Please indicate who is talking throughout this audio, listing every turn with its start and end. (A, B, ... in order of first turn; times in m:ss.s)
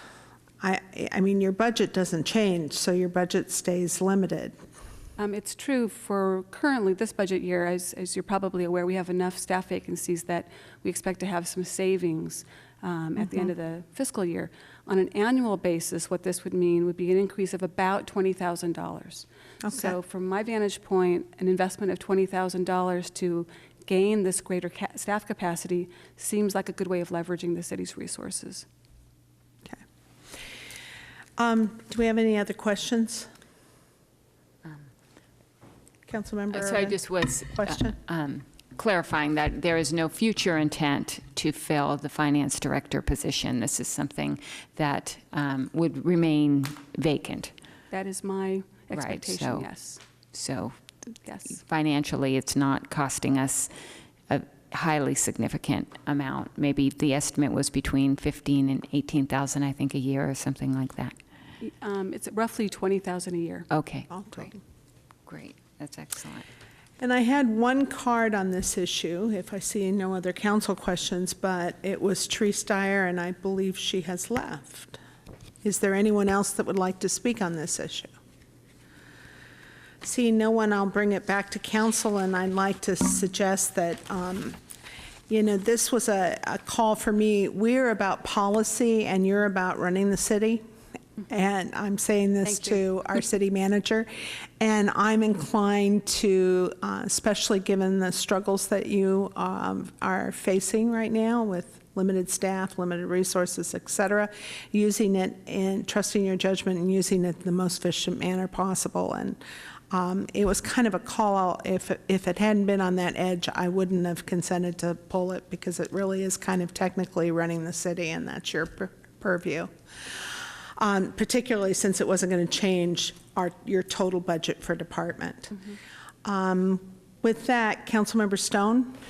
0:00.6-0:04.6 A
0:05.2-0:28.6 B
0:19.6-0:19.9 A
0:31.4-0:33.3 A
0:36.1-0:38.0 A
0:36.5-0:47.5 C
0:47.9-0:50.0 B
0:48.9-0:49.6 C
0:50.3-0:50.8 C
0:51.2-0:51.6 B
0:51.5-0:53.7 C
0:54.3-1:01.2 C
1:01.6-1:03.7 B
1:03.7-1:04.5 C
1:04.1-1:04.5 A
1:05.3-1:06.4 C
1:07.0-1:15.0 A
1:15.6-1:18.1 A
1:20.0-1:24.6 A
1:25.3-1:30.6 A
1:31.3-1:34.1 A
1:32.4-1:32.9 B
1:34.6-1:49.4 A
1:49.9-1:59.7 A
2:00.8-2:05.7 A
2:06.2-2:08.9 A